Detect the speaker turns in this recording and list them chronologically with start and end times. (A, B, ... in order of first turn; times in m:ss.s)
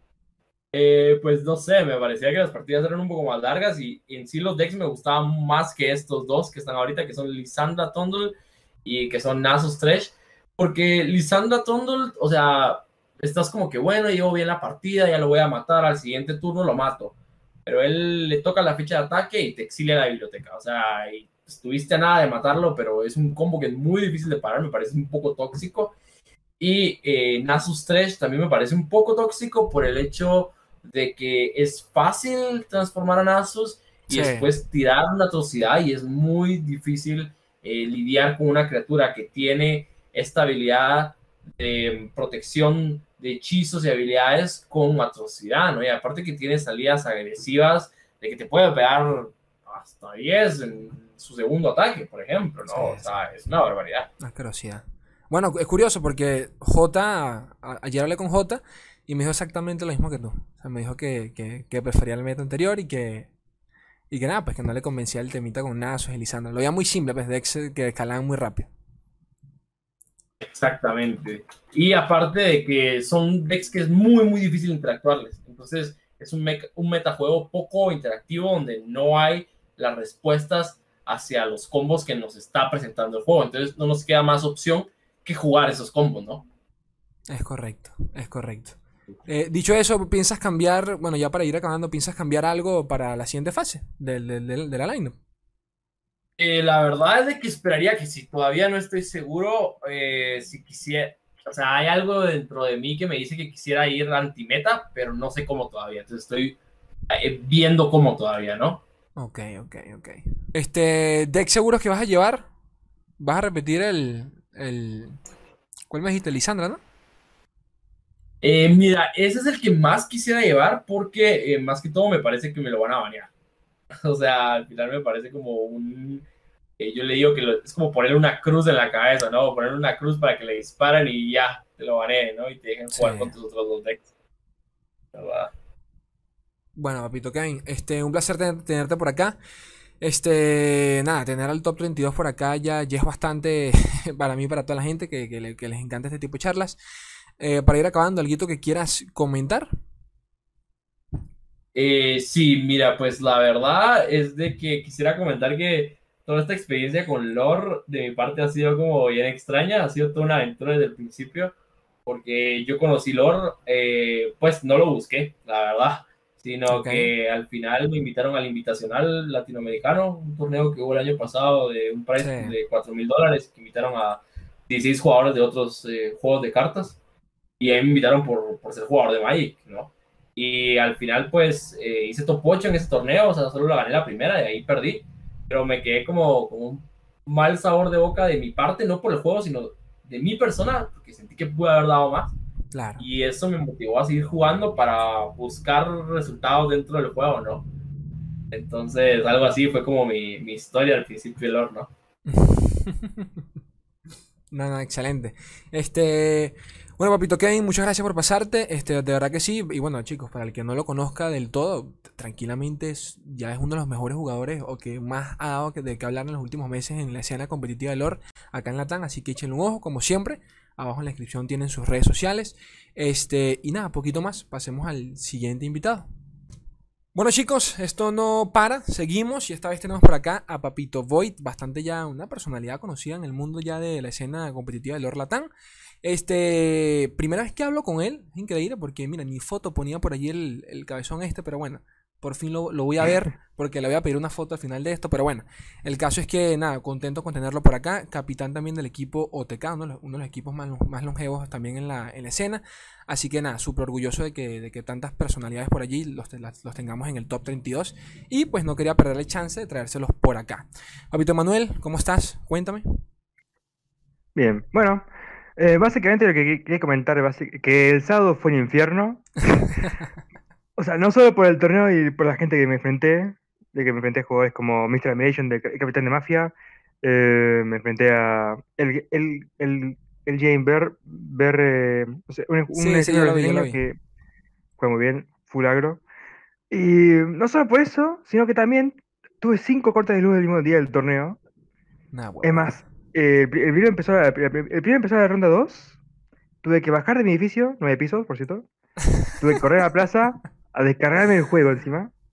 0:00.7-0:26.0 A
0:26.6-0:54.1 A
0:34.1-0:34.5 B
0:52.7-0:53.2 B
0:54.2-1:03.3 B
1:04.1-1:08.7 B
1:10.4-1:26.5 A
1:27.3-1:35.2 B
1:36.4-1:46.6 A
1:47.1-1:48.8 A
1:49.2-1:52.5 B
1:53.2-1:55.2 B
1:55.9-1:56.8 B
1:58.4-2:03.3 A
2:04.0-2:06.3 A
2:06.8-2:14.1 A
2:12.9-2:13.3 B
2:15.1-2:15.5 A
2:16.8-2:19.4 B
2:20.0-2:26.8 B
2:27.4-2:29.7 B
2:31.8-2:41.5 A
2:42.1-2:57.0 A
2:46.7-2:47.1 B
2:52.2-2:52.6 B
2:57.6-3:12.4 A
3:12.7-3:13.1 B
3:13.0-3:17.7 A
3:18.5-3:21.9 A
3:22.3-3:23.4 B
3:24.5-3:46.1 B
3:47.2-3:55.5 B
3:56.0-4:23.0 B
4:24.4-4:25.0 C
4:25.6-4:29.8 C
4:30.8-4:44.0 C
4:42.7-4:43.8 B
4:44.8-4:46.0 C
4:46.7-4:51.4 C
4:52.1-4:52.8 B
4:52.4-4:56.0 C
4:56.6-4:58.7 C
4:59.4-5:02.1 C